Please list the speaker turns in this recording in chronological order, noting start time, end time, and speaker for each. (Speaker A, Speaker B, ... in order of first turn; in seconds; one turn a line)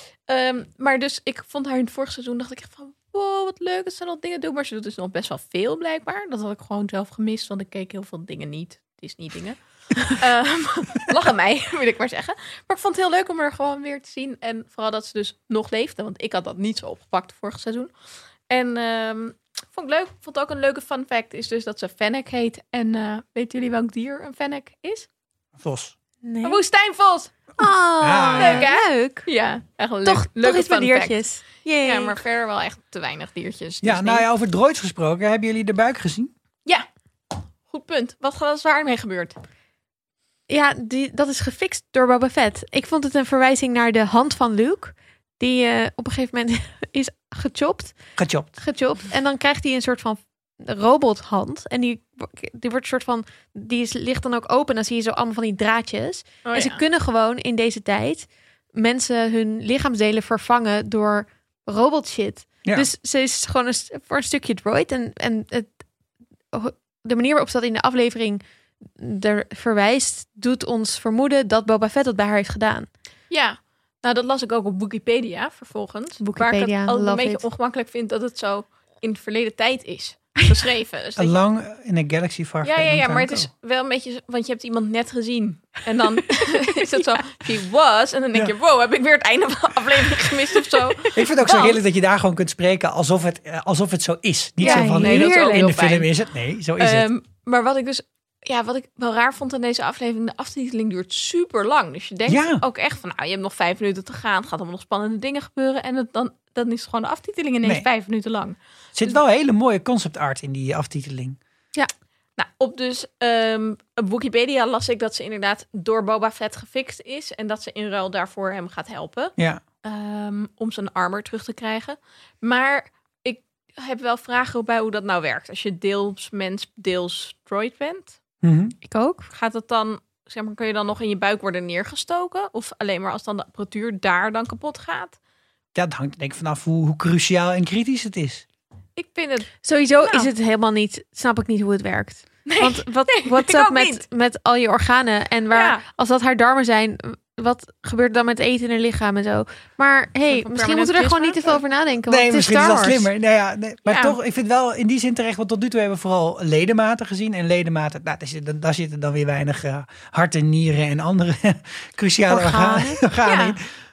Speaker A: 0.3-17.9
Speaker A: 18.5-25.1
Speaker B: 25.6-25.9
Speaker C: 26.2-26.6
Speaker A: 26.4-27.3
Speaker C: 27.6-29.3
Speaker B: 28.0-28.6
Speaker A: 28.4-31.2
Speaker C: 30.0-32.2
Speaker A: 31.8-34.2
Speaker B: 33.8-36.3
Speaker A: 37.7-39.4
Speaker C: 40.5-48.0
Speaker B: 48.2-48.5
Speaker C: 48.5-65.8
Speaker A: 56.4-56.8
Speaker C: 66.5-72.9
Speaker A: 73.3-81.3
Speaker C: 76.2-77.4
Speaker B: 81.2-83.5
Speaker A: 82.6-91.8
Speaker B: 91.1-97.1
Speaker C: 94.6-95.8
Speaker A: 94.6-96.1
Speaker A: 96.8-108.6
Speaker B: 102.3-102.6
Speaker B: 109.0-111.4
Speaker A: 112.4-128.2
Speaker B: 128.4-128.7
Speaker C: 128.8-129.3
Speaker A: 129.3-135.2
Speaker B: 135.7-138.4
Speaker A: 138.9-140.3
Speaker C: 139.6-153.1
Speaker A: 142.5-144.0
Speaker A: 145.5-145.8
Speaker A: 150.3-151.6
Speaker B: 152.1-163.6
Speaker A: 153.9-154.2
Speaker C: 162.3-163.1
Speaker A: 163.2-163.6